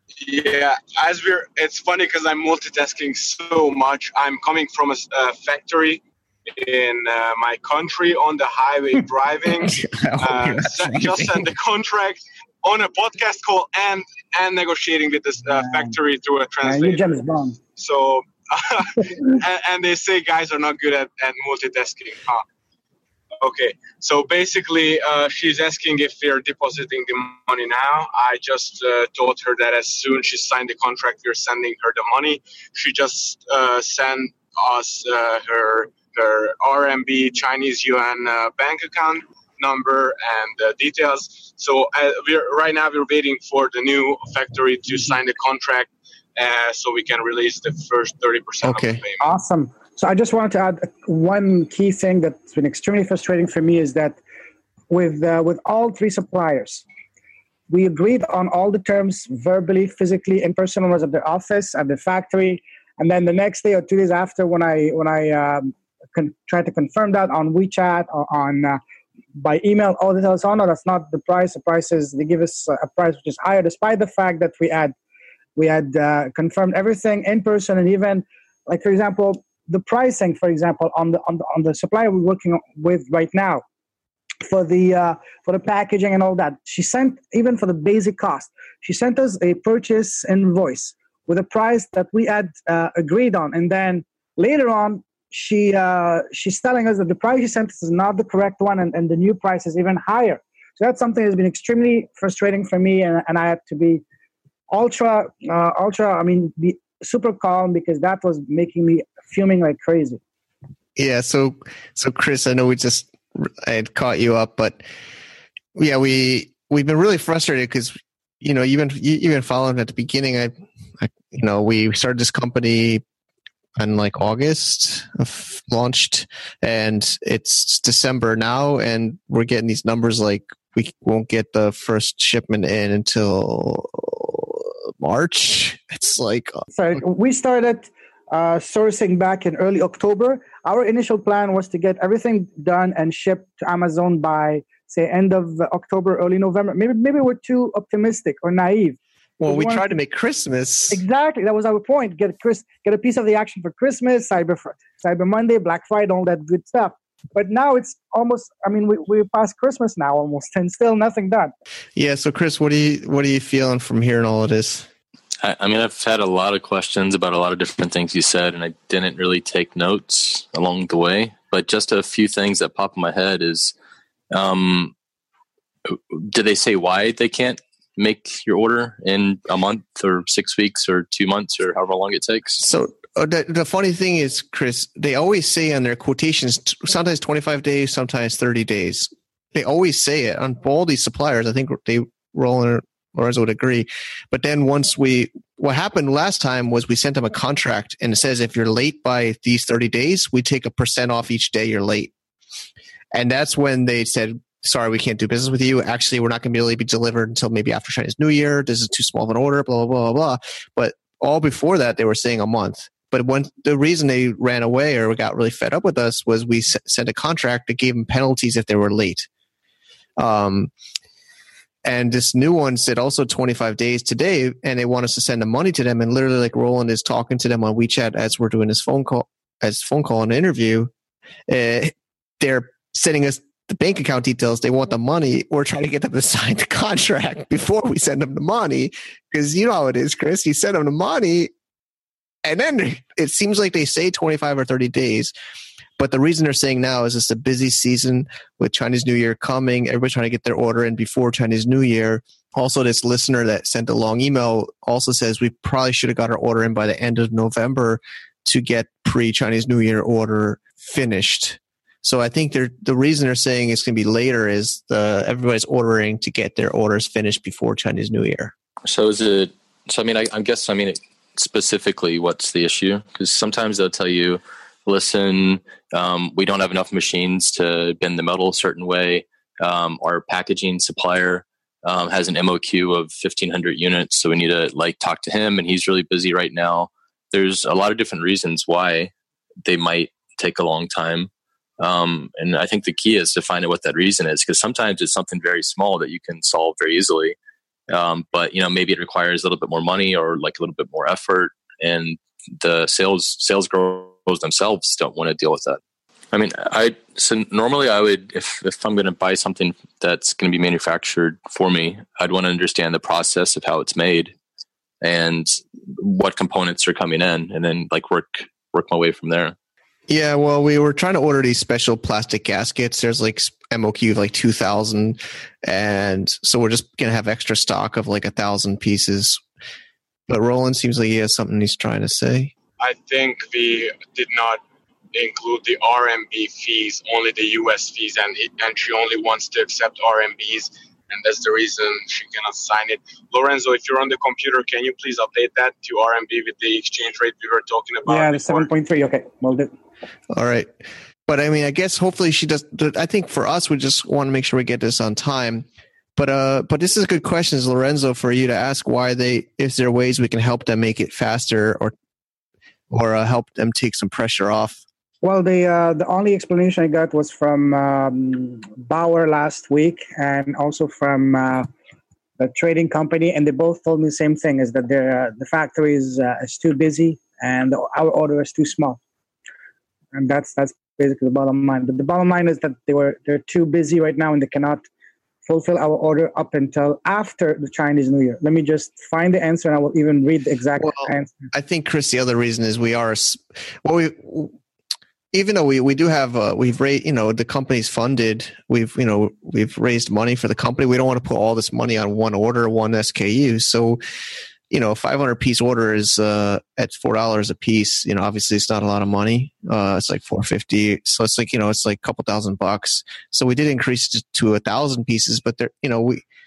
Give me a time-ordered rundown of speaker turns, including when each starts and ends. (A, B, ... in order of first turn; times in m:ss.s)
0:00.2-0:17.2 A
0:09.6-0:11.5 B
0:15.6-0:15.9 C
0:16.6-0:17.6 C
0:17.7-0:22.4 A
0:23.4-0:49.3 A
0:48.6-0:49.0 B
0:49.2-0:54.2 C
0:54.9-0:56.8 C
0:57.7-1:08.8 C
1:09.4-1:14.9 C
1:15.6-1:23.6 C
1:24.4-1:44.0 C
1:44.7-1:50.2 C
1:51.0-1:54.8 B
1:55.8-2:03.0 B
2:03.8-2:16.6 B
2:16.7-2:29.9 C
2:29.4-2:31.0 B
2:30.9-2:41.5 C
2:42.0-2:44.9 B
2:45.4-2:53.7 D
2:54.3-2:54.9 D
2:55.9-3:02.6 D
3:02.6-3:22.1 B
3:23.1-3:39.3 B
3:40.2-3:40.7 B
3:41.8-3:50.9 B
3:51.5-4:01.5 B
4:02.4-4:05.3 B
4:06.0-4:28.5 B
4:28.8-4:49.1 D
4:49.6-4:57.4 D
4:57.9-5:05.8 D
5:06.3-5:14.3 D
5:15.0-5:19.6 D
5:20.1-5:29.4 B
5:30.3-5:32.5 B
5:32.8-5:34.6 A
5:35.1-5:48.7 A
5:48.1-5:49.7 C
5:50.3-5:50.7 B
5:51.3-6:01.9 B
6:02.9-6:04.8 B
6:05.2-6:11.7 C
6:12.4-6:19.0 C
6:20.1-6:24.8 C
6:25.5-6:31.5 C
6:30.8-6:34.5 B
6:35.3-6:44.0 B
6:44.7-6:56.2 B